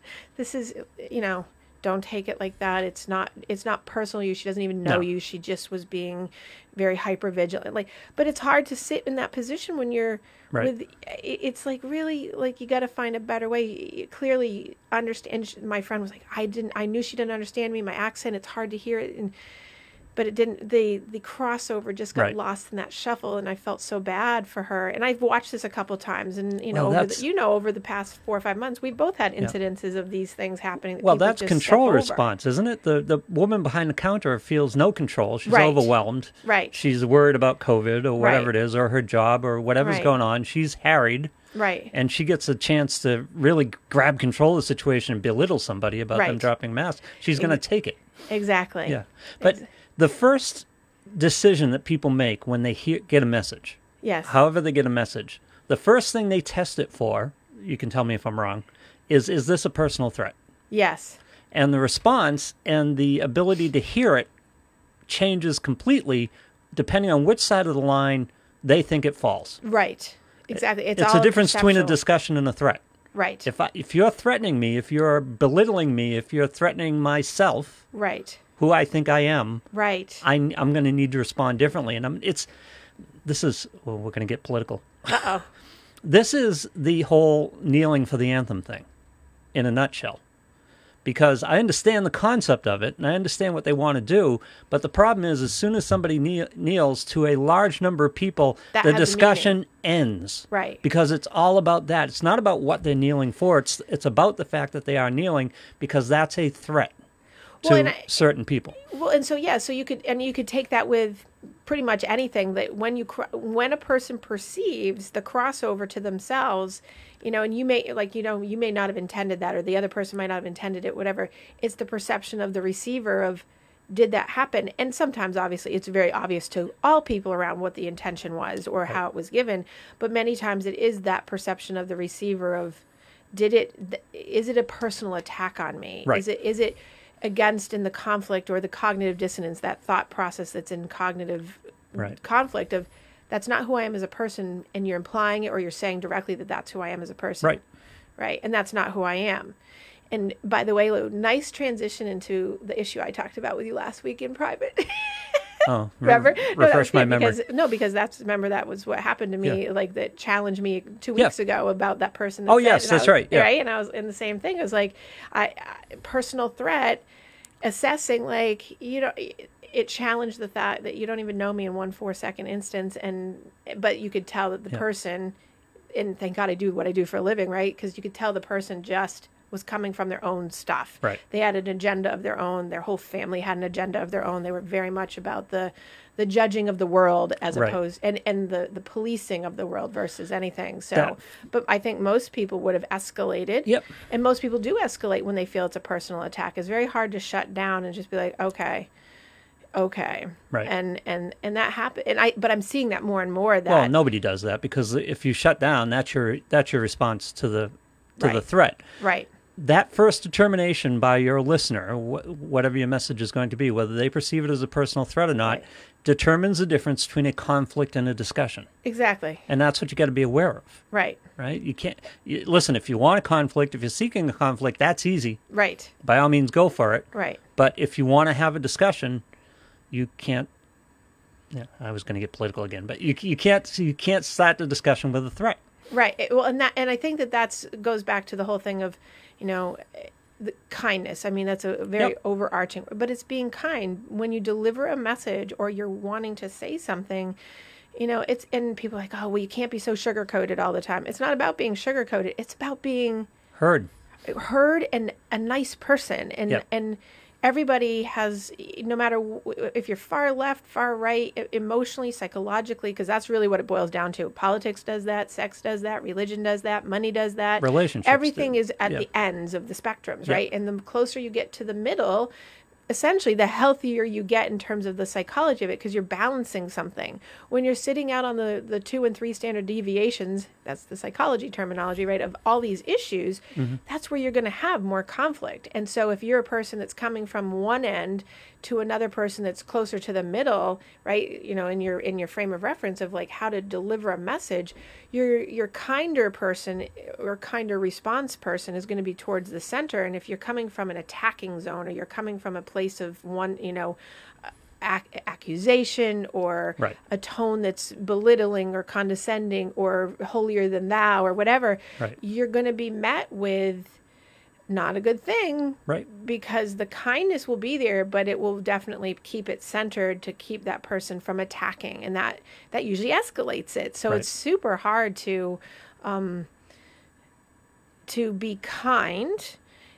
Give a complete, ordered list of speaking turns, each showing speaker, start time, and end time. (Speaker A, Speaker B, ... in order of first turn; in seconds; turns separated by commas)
Speaker A: 0.3-19.3, Speaker A: 20.1-32.2, Speaker B: 26.7-27.2, Speaker B: 31.0-41.3, Speaker A: 35.5-35.9, Speaker A: 36.4-36.8, Speaker A: 38.2-38.5, Speaker A: 39.8-40.1, Speaker A: 41.5-41.9, Speaker B: 41.9-48.0, Speaker A: 46.1-46.5, Speaker A: 48.3-49.6, Speaker B: 48.9-60.3, Speaker A: 54.0-54.3, Speaker A: 60.7-61.2, Speaker B: 61.5-64.3, Speaker B: 65.1-69.6, Speaker A: 69.6-72.0, Speaker B: 71.0-72.8, Speaker A: 73.1-73.5, Speaker B: 73.4-77.8, Speaker A: 77.9-78.4, Speaker B: 78.6-79.6, Speaker A: 79.7-80.2, Speaker B: 80.2-82.5, Speaker B: 83.2-84.9, Speaker A: 85.0-85.5, Speaker B: 86.0-88.8, Speaker B: 89.5-90.2, Speaker B: 91.0-106.9, Speaker A: 98.7-99.6, Speaker A: 100.5-100.8, Speaker A: 107.6-108.0, Speaker B: 107.6-108.8, Speaker A: 108.8-132.8, Speaker A: 133.3-147.6, Speaker A: 148.2-149.6, Speaker A: 150.1-167.0, Speaker B: 155.7-157.4, Speaker B: 162.5-163.5, Speaker A: 167.6-175.3, Speaker A: 175.9-198.9, Speaker A: 199.7-203.9, Speaker B: 203.7-208.8, Speaker A: 209.0-209.3, Speaker B: 209.6-218.7, Speaker A: 218.8-219.4, Speaker B: 219.5-220.8, Speaker A: 220.9-221.2, Speaker B: 221.4-225.4, Speaker A: 225.5-225.9, Speaker B: 226.0-229.2, Speaker A: 227.1-227.4, Speaker B: 229.9-230.5, Speaker B: 231.5-235.6, Speaker A: 235.9-247.3, Speaker A: 247.9-253.3, Speaker B: 253.5-253.9, Speaker A: 254.3-272.3, Speaker B: 267.6-269.0, Speaker A: 272.9-314.0, Speaker A: 314.7-326.5, Speaker A: 328.1-329.6